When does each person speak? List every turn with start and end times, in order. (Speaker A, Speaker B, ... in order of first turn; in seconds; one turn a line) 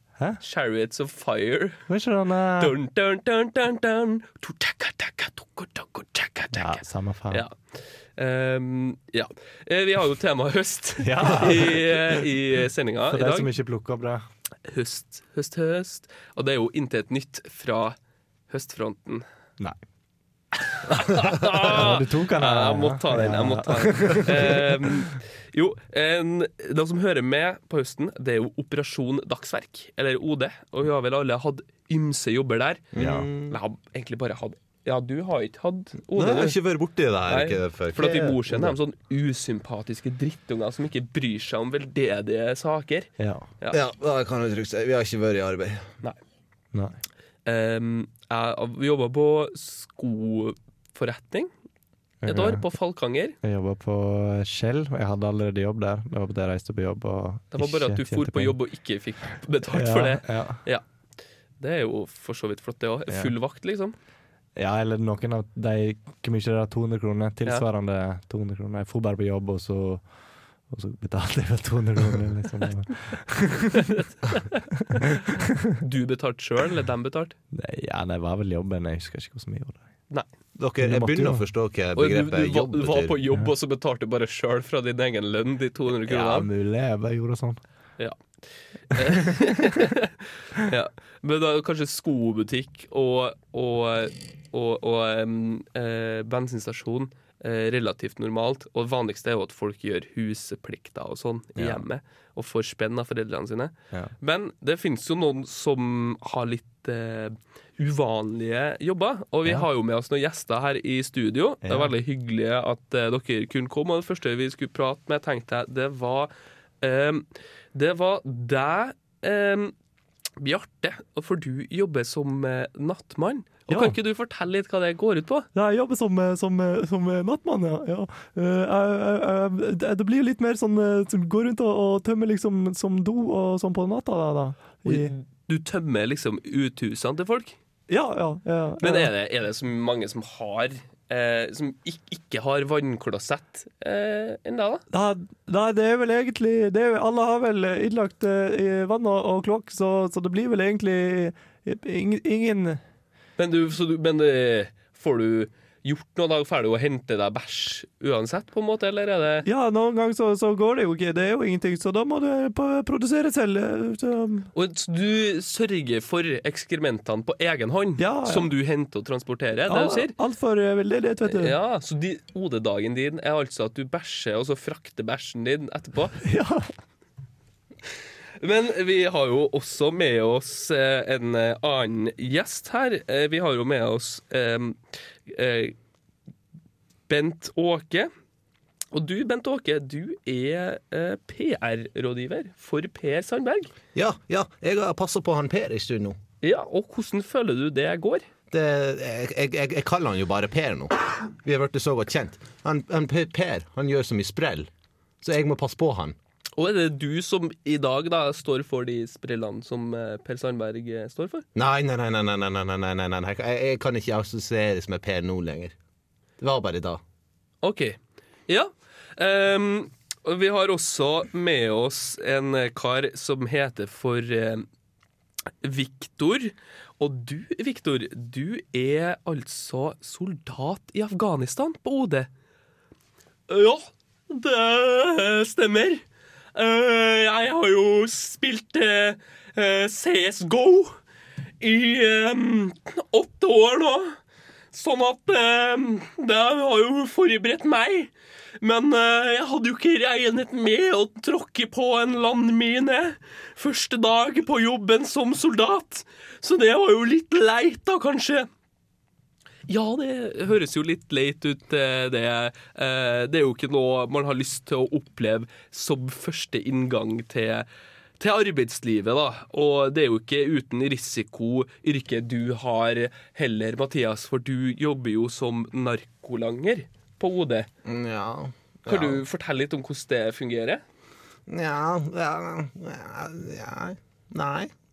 Speaker A: 0.4-1.9
Speaker B: 1.9-2.7
Speaker A: 2.6-13.5
Speaker B: 6.5-7.4
Speaker B: 11.0-12.2
Speaker B: 13.1-14.2
Speaker A: 14.7-17.9
Speaker A: 18.5-19.2
Speaker A: 20.7-32.8
Speaker B: 21.6-25.1
Speaker C: 32.9-33.6
Speaker B: 32.9-33.3
Speaker A: 33.5-36.6
Speaker C: 36.1-38.8
Speaker A: 37.2-43.8
Speaker B: 43.2-43.5
Speaker C: 43.7-45.9
Speaker A: 47.5-51.5
Speaker B: 52.2-52.7
Speaker A: 52.3-53.4
Speaker B: 53.4-58.6
Speaker A: 57.5-60.8
Speaker B: 59.6-60.6
Speaker A: 61.6-63.9
Speaker B: 63.1-63.3
Speaker B: 64.5-73.9
Speaker A: 73.8-74.6
Speaker A: 75.8-77.3
Speaker B: 77.5-79.8
Speaker C: 80.6-83.2
Speaker B: 80.8-81.5
Speaker A: 81.9-86.5
Speaker B: 86.1-87.6
Speaker A: 88.0-88.4
Speaker A: 88.9-119.7
Speaker B: 88.9-89.5
Speaker B: 111.6-111.9
Speaker A: 120.4-125.5
Speaker B: 123.7-124.0
Speaker B: 125.5-135.1
Speaker A: 134.8-137.6
Speaker B: 137.9-139.1
Speaker A: 138.8-144.8
Speaker B: 144.9-152.8
Speaker A: 153.4-159.4
Speaker B: 159.4-164.5
Speaker A: 164.5-170.1
Speaker B: 168.0-168.5
Speaker B: 169.7-171.6
Speaker A: 171.2-176.2
Speaker B: 176.2-176.7
Speaker A: 178.4-185.8
Speaker A: 187.1-188.1
Speaker A: 188.9-193.7
Speaker C: 193.9-196.2
Speaker A: 196.4-198.2
Speaker C: 198.5-204.7
Speaker C: 205.2-206.2
Speaker A: 206.6-211.4
Speaker C: 211.5-215.7
Speaker C: 216.4-217.0
Speaker A: 217.6-218.0
Speaker A: 218.5-224.7
Speaker A: 225.6-232.3
Speaker A: 233.5-236.0
Speaker A: 236.5-240.9
Speaker A: 241.6-244.2
Speaker A: 244.7-258.5
Speaker A: 259.7-267.7
Speaker A: 268.2-277.7
Speaker C: 277.9-279.2
Speaker A: 278.9-280.8
Speaker C: 281.5-284.7